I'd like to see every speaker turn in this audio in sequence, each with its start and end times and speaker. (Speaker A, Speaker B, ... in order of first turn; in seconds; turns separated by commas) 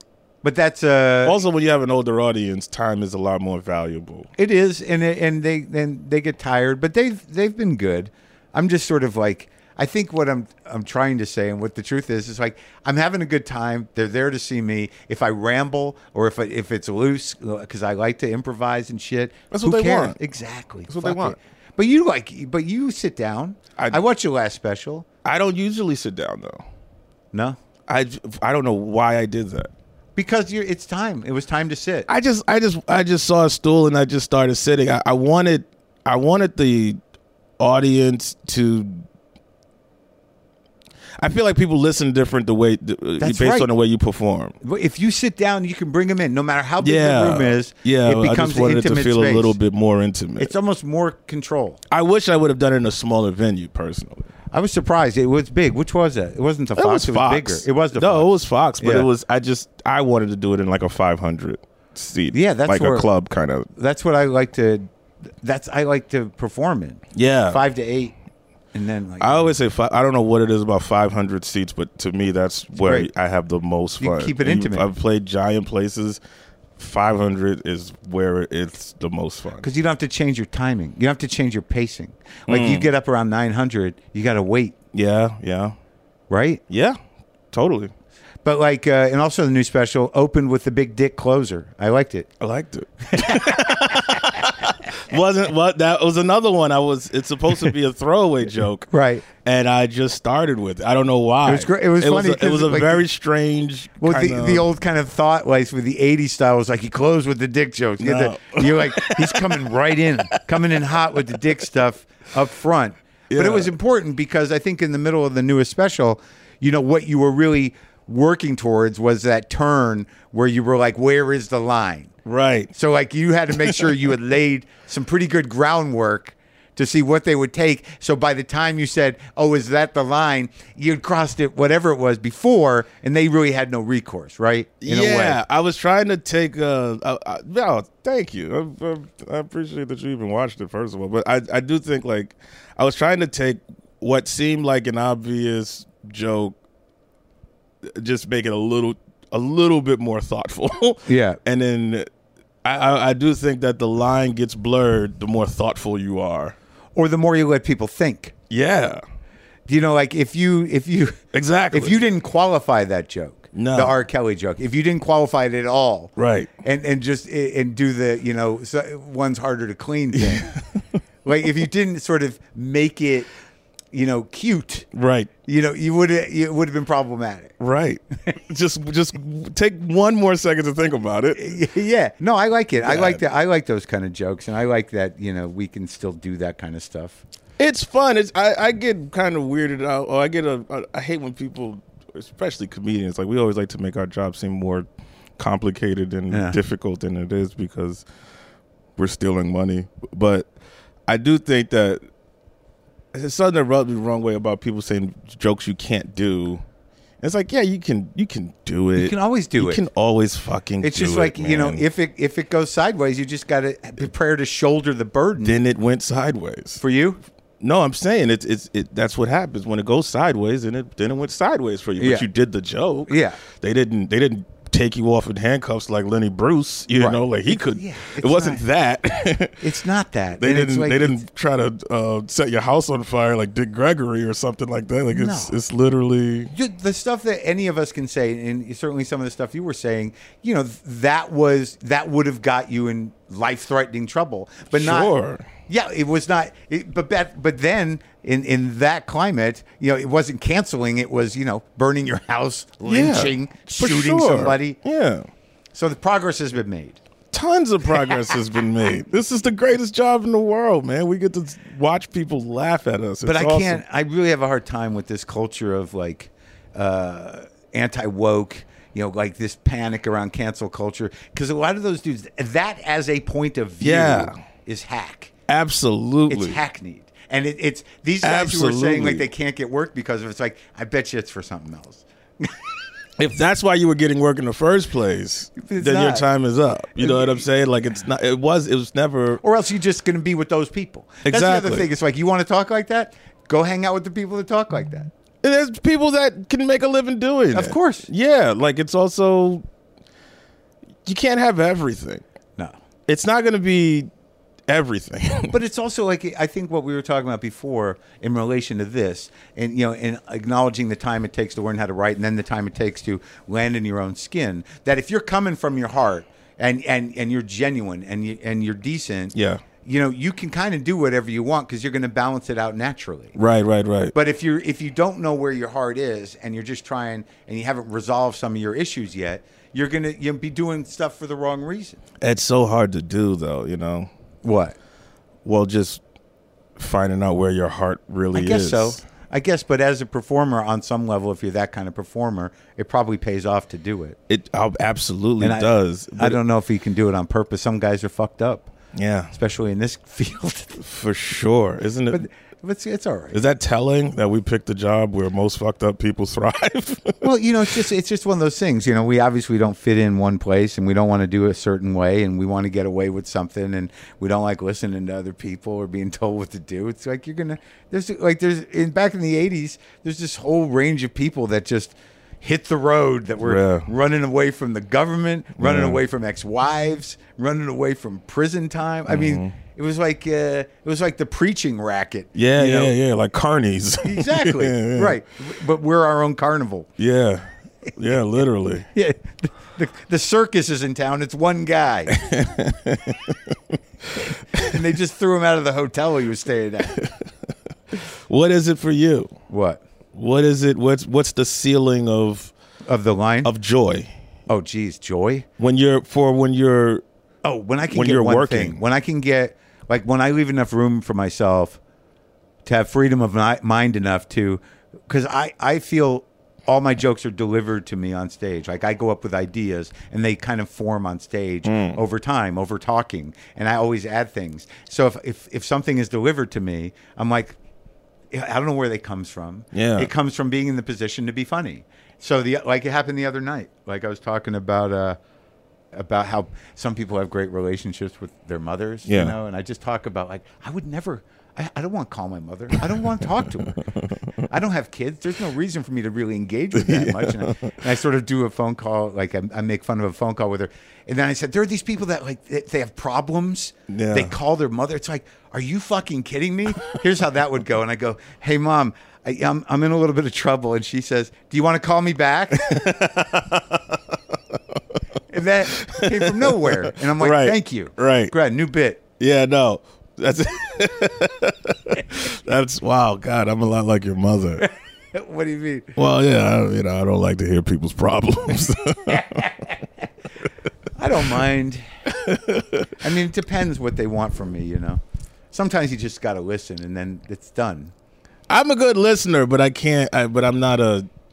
Speaker A: 0.4-1.4, Speaker B: 1.2-4.3, Speaker A: 4.4-25.1, Speaker B: 19.5-20.2, Speaker B: 20.9-21.4, Speaker B: 25.2-26.6, Speaker B: 27.9-29.7, Speaker A: 30.1-32.1, Speaker B: 32.1-37.0, Speaker B: 37.6-39.0, Speaker B: 41.2-44.5, Speaker A: 43.2-43.7, Speaker A: 44.6-49.5, Speaker B: 46.8-50.5, Speaker A: 50.4-51.8, Speaker B: 51.9-54.3, Speaker A: 54.5-59.1, Speaker B: 56.8-63.7, Speaker A: 62.3-63.1, Speaker A: 63.8-64.9, Speaker A: 65.4-68.1, Speaker B: 67.1-67.6, Speaker A: 68.7-69.5, Speaker B: 69.2-76.2, Speaker A: 72.8-73.1, Speaker A: 74.0-74.9, Speaker B: 76.8-79.7, Speaker A: 79.6-84.8, Speaker B: 82.5-82.9, Speaker B: 84.9-85.7, Speaker A: 86.3-86.6, Speaker B: 86.7-87.0, Speaker B: 87.5-87.9, Speaker A: 88.4-92.3, Speaker B: 92.4-98.9, Speaker A: 93.1-94.3, Speaker A: 98.9-99.2, Speaker B: 99.4-104.7, Speaker A: 101.4-103.0, Speaker A: 104.0-122.1, Speaker B: 108.0-109.7, Speaker B: 110.5-111.4, Speaker B: 113.3-113.7, Speaker B: 122.2-122.7, Speaker A: 122.7-135.4, Speaker B: 123.6-123.9, Speaker B: 134.8-146.6, Speaker B: 147.8-152.1, Speaker A: 151.1-151.4, Speaker B: 152.6-156.6, Speaker A: 156.9-158.3, Speaker B: 158.5-159.0, Speaker A: 159.7-161.2, Speaker B: 161.3-162.0, Speaker A: 161.7-166.1, Speaker B: 163.5-163.9, Speaker B: 166.2-166.5, Speaker A: 166.6-170.5, Speaker B: 170.1-170.8, Speaker A: 171.2-173.3, Speaker A: 173.9-174.9, Speaker B: 174.9-175.3, Speaker A: 175.4-177.5, Speaker B: 177.6-181.4, Speaker A: 181.3-187.2, Speaker B: 182.8-183.2, Speaker B: 187.6-194.8, Speaker B: 195.4-198.0, Speaker A: 196.3-196.6, Speaker B: 199.0-200.5, Speaker B: 201.1-202.0, Speaker B: 203.1-206.6, Speaker B: 207.2-211.8, Speaker A: 208.9-209.8, Speaker A: 210.8-215.6, Speaker B: 215.4-216.8, Speaker A: 216.8-217.2, Speaker B: 217.6-229.6, Speaker A: 222.0-222.2, Speaker A: 223.1-223.4, Speaker A: 226.9-228.6, Speaker A: 229.6-231.2, Speaker B: 230.4-236.5, Speaker A: 235.1-235.5, Speaker A: 236.5-245.1, Speaker B: 244.7-245.5, Speaker A: 245.7-254.8, Speaker B: 252.8-255.3, Speaker A: 255.7-257.0, Speaker B: 257.3-263.8, Speaker A: 263.2-275.3, Speaker B: 273.8-274.3, Speaker B: 275.5-276.6, Speaker A: 276.3-282.7, Speaker B: 278.2-279.2, Speaker B: 283.2-289.4, Speaker A: 285.6-286.2, Speaker A: 286.9-287.4, Speaker A: 289.4-295.1, Speaker B: 291.2-291.9, Speaker B: 295.4-299.6, Speaker A: 297.5-298.1, Speaker B: 301.0-302.2, Speaker B: 303.1-304.1, Speaker B: 304.7-305.5, Speaker A: 305.5-323.4, Speaker B: 319.3-319.6, Speaker B: 323.4-324.1, Speaker A: 324.1-332.0, Speaker B: 332.2-334.1, Speaker A: 334.4-334.8, Speaker B: 335.4-336.0, Speaker B: 336.8-339.0, Speaker A: 338.3-344.2, Speaker B: 344.3-346.4, Speaker A: 345.4-348.7, Speaker B: 348.9-349.3, Speaker A: 349.3-350.8, Speaker B: 350.8-352.2, Speaker A: 352.1-353.4, Speaker B: 353.3-357.2, Speaker A: 357.2-382.9, Speaker B: 373.4-373.9, Speaker B: 375.6-376.0, Speaker B: 379.1-379.5, Speaker B: 382.3-385.2, Speaker A: 384.0-386.9, Speaker B: 387.0-388.9, Speaker A: 388.9-392.1, Speaker B: 392.1-394.8, Speaker A: 394.6-397.0, Speaker B: 396.9-397.3, Speaker B: 397.9-399.3, Speaker A: 399.5-399.8, Speaker B: 400.1-402.5, Speaker A: 402.9-403.5, Speaker B: 403.4-404.1, Speaker A: 404.5-405.4, Speaker B: 405.6-407.0, Speaker A: 407.4-411.8, Speaker B: 407.9-408.8, Speaker A: 412.6-427.6, Speaker B: 421.6-422.0, Speaker A: 428.3-435.2, Speaker B: 429.7-430.1, Speaker A: 435.9-443.8, Speaker B: 439.1-439.3, Speaker A: 444.4-462.9, Speaker B: 446.7-447.7, Speaker B: 453.9-454.3, Speaker B: 462.5-464.6, Speaker A: 465.3-469.0, Speaker B: 465.7-468.3, Speaker B: 469.2-474.6, Speaker A: 474.6-476.0, Speaker B: 475.9-479.5, Speaker A: 479.2-479.7, Speaker A: 480.9-481.8, Speaker B: 482.1-483.0, Speaker A: 483.0-485.0, Speaker A: 485.5-487.9, Speaker B: 488.5-491.1